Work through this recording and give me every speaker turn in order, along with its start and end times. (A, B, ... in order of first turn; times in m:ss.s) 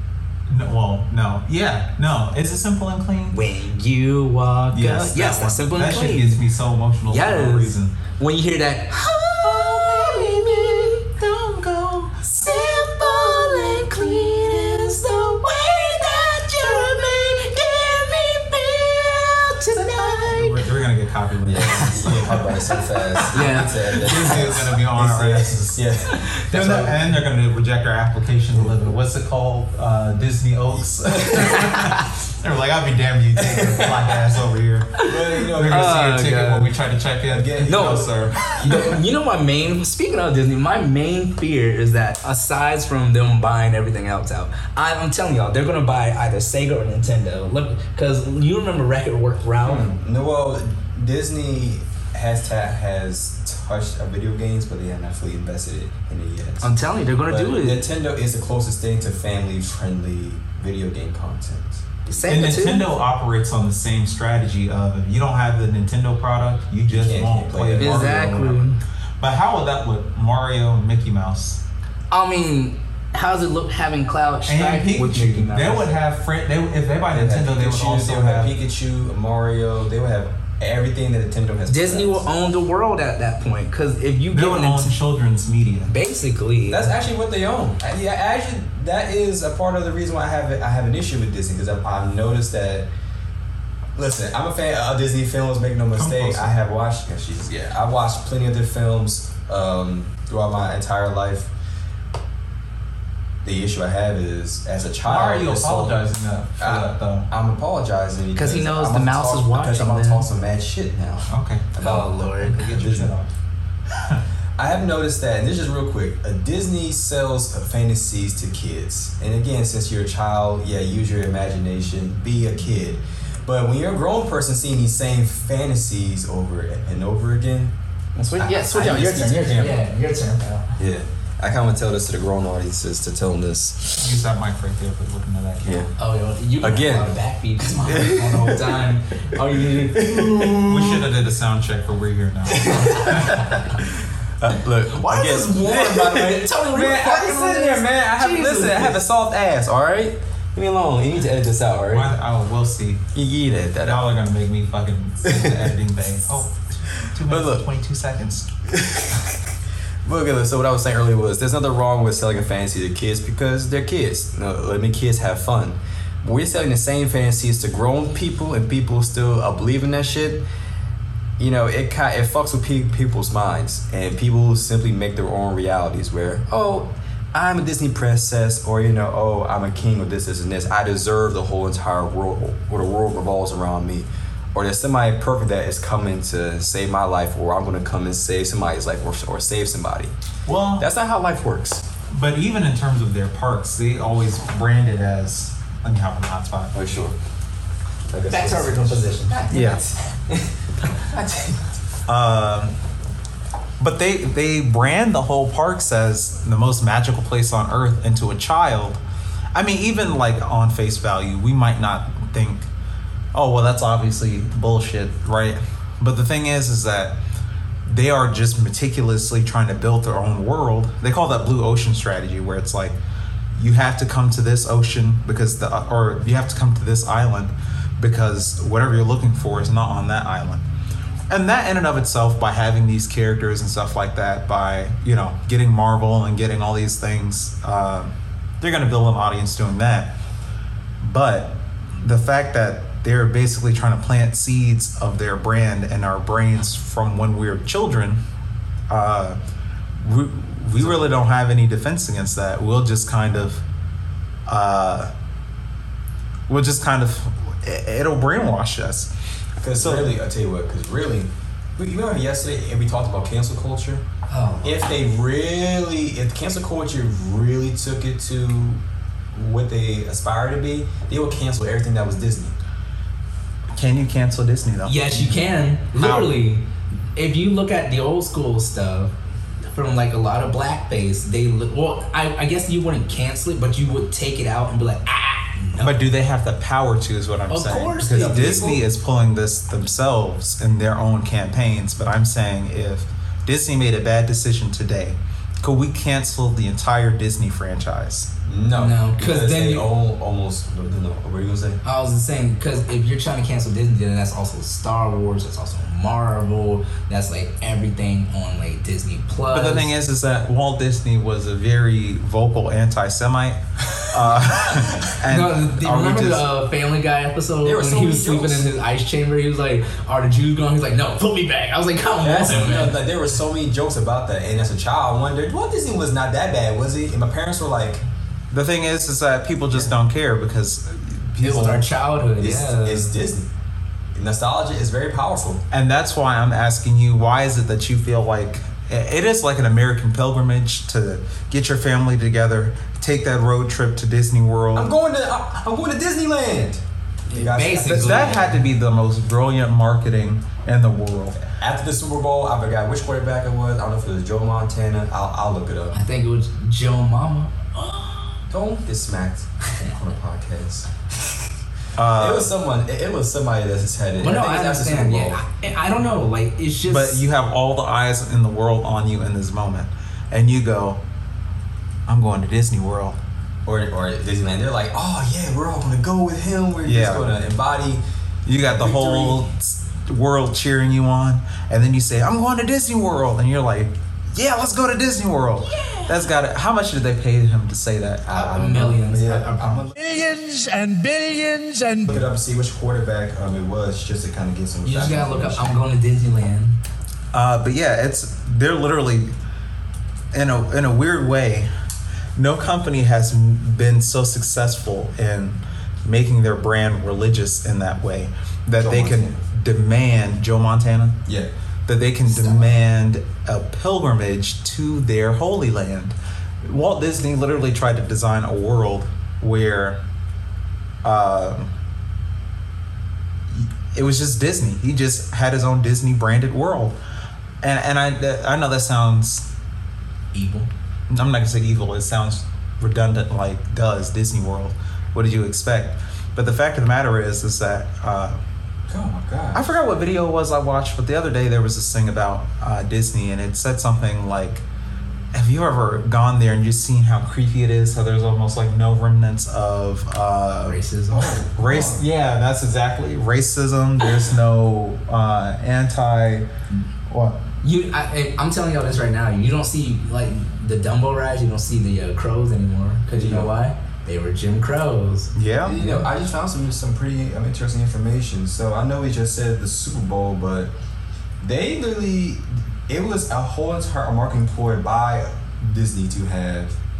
0:00.5-0:03.4 A
0:03.3-0:06.4 B
0:04.7-0:08.0 A
0:07.1-0:11.2 B
0:09.4-0:14.4 A
0:12.2-0:20.6 B
0:16.6-0:17.0 A
0:19.7-0:22.4 A
0:21.4-0:27.1 C
0:22.1-0:24.6 B
0:23.2-0:25.9 A
0:26.5-0:38.9 A
0:28.5-0:28.8 C
0:30.7-0:31.8 C
0:31.4-0:32.0 B
0:33.4-0:34.2 C
0:35.0-0:36.7 B
0:35.0-0:36.2 C
0:37.3-0:39.0 C
0:37.6-0:49.9 B
0:49.6-0:56.7 C
0:56.6-0:57.8 B
0:57.2-1:02.6 C
1:02.1-1:02.9 B
1:02.3-1:08.7 A
1:06.9-1:08.3 C
1:07.8-1:08.8 B
1:09.2-1:11.6 A
1:12.1-1:15.9 B
1:14.4-1:18.5 A
1:17.1-1:22.2 C
1:21.7-1:25.0 B
1:24.3-1:26.0 A
1:25.9-1:26.9 B
1:26.7-1:32.9 C
1:34.0-1:41.5 C
1:36.0-1:36.5 A
1:43.4-1:46.0 C
1:45.0-1:47.3 A
1:46.6-1:53.2 C
1:48.3-1:50.2 B
1:51.3-1:51.7 A
1:51.8-1:52.7 B
1:52.4-1:53.3 A
1:53.9-1:54.2 A
1:54.6-2:07.7 C
2:08.3-2:09.8 A
2:08.3-2:10.7 B
2:08.5-2:09.7 C
2:10.8-2:14.1 C
2:14.0-2:15.9 A
2:15.6-2:15.9 C
2:16.0-2:20.5 B
2:16.6-2:21.1 C
2:20.5-2:23.5 A
2:22.5-2:32.1 C
2:22.8-2:23.4 B
2:24.9-2:29.0 B
2:31.9-2:33.0 A
2:33.1-2:34.1 C
2:33.8-2:38.5 A
2:35.2-2:35.7 C
2:37.0-2:37.7 C
2:38.7-2:50.4 C
2:51.4-3:10.1 C
3:10.4-3:10.9 A
3:10.8-3:11.8 C
3:12.1-3:16.7 A
3:16.7-3:17.1 C
3:18.1-3:21.6 C
3:18.3-3:19.9 B
3:19.5-3:19.8 A
3:22.1-3:22.7 A
3:23.8-3:29.0 A
3:29.5-3:32.7 A
3:33.3-3:37.2 A
3:37.8-3:43.0 A
3:43.5-3:50.6 A
3:51.3-4:00.2 A
4:01.0-4:08.2 A
4:08.9-4:09.4 A
4:10.0-4:13.6 A
4:10.8-4:11.1 C
4:14.5-4:15.1 A
4:16.5-4:19.1 A
4:19.6-4:24.0 C
4:19.7-4:20.2 A
4:24.3-4:25.0 B
4:24.6-4:28.8 C
4:29.3-4:32.5 C
4:33.7-4:35.2 A
4:34.8-4:39.1 B
4:35.9-4:36.4 A
4:39.7-4:46.1 B
4:45.8-4:58.3 A
4:47.5-4:48.8 B
4:48.1-4:48.8 C
4:58.4-5:01.8 C
4:58.8-4:59.9 B
5:01.8-5:09.9 B
5:09.5-5:16.5 A
5:15.2-5:23.0 B
5:17.6-5:18.6 C
5:22.2-5:28.0 C
5:28.5-5:31.9 A
5:31.4-5:33.2 B
5:32.4-5:33.5 C
5:34.1-5:35.6 C
5:35.7-5:44.9 A
5:44.7-5:48.5 C
5:47.3-5:48.6 B
5:47.8-5:51.4 A
5:51.6-5:55.9 C
5:55.9-5:58.4 B
5:58.5-6:01.4 C
6:02.0-6:02.6 A
6:02.1-6:05.4 C
6:04.2-6:07.2 B
6:06.8-6:11.0 A
6:12.1-6:13.2 A
6:13.6-6:18.0 C
6:16.8-6:17.3 A
6:18.4-6:28.2 A
6:18.6-6:19.4 C
6:25.6-6:26.3 B
6:28.2-6:29.9 C
6:28.3-6:32.2 B
6:32.0-6:35.8 C
6:34.8-6:36.8 B
6:37.3-6:39.3 A
6:40.3-6:41.7 A
6:42.4-6:51.2 A
6:48.8-6:49.4 C
6:51.8-7:00.0 A
7:01.0-7:01.7 A
7:03.5-7:07.0 A
7:07.6-7:09.5 A
7:10.3-7:10.7 B
7:11.1-7:18.4 A
7:18.9-7:19.6 C
7:19.5-7:24.6 A
7:25.3-7:30.8 A
7:30.6-7:31.4 B
7:31.1-7:32.0 C
7:31.6-7:36.5 A
7:37.1-7:37.4 A
7:37.6-7:46.1 B
7:43.1-7:43.5 C
7:45.3-7:45.8 A
7:45.6-7:50.7 C
7:51.4-7:56.8 C